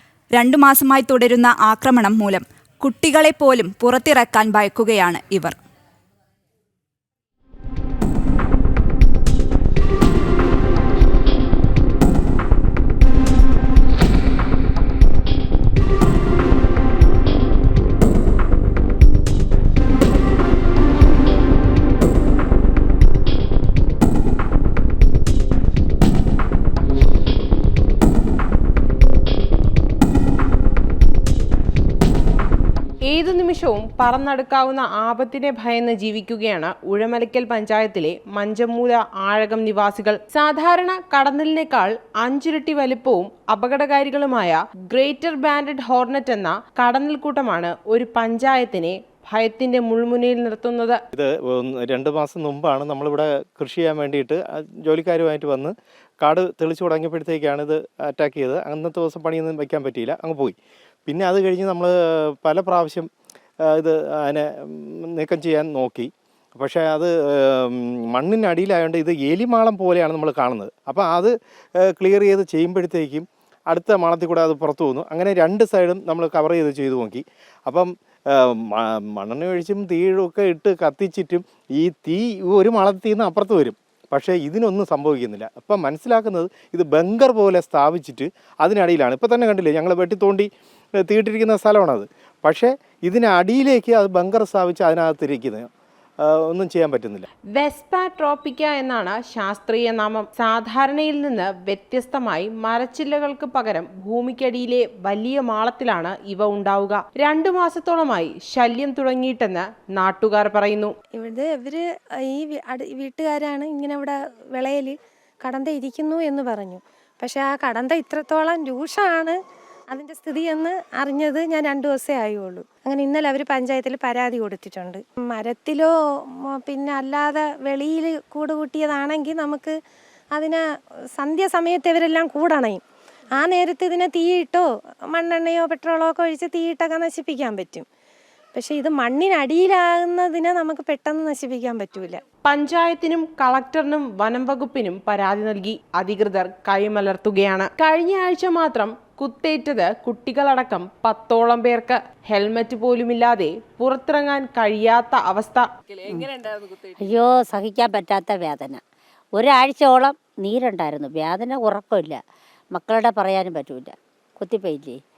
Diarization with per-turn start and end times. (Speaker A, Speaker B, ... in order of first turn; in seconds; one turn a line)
Speaker A: 0.3-5.5
Speaker B: 33.0-51.0
Speaker C: 51.1-60.5
Speaker C: 61.1-63.1
Speaker C: 63.7-90.5
Speaker C: 91.0-95.6
Speaker C: 96.2-97.3
Speaker B: 97.5-110.9
Speaker D: 111.1-119.4
Speaker D: 119.9-125.9
Speaker D: 126.5-129.7
Speaker D: 130.3-130.6
Speaker D: 131.2-132.8
Speaker D: 133.3-137.8
Speaker D: 138.5-142.2
Speaker B: 142.5-155.7
Speaker E: 157.0-158.8
Speaker E: 159.4-162.2
Speaker E: 162.7-165.0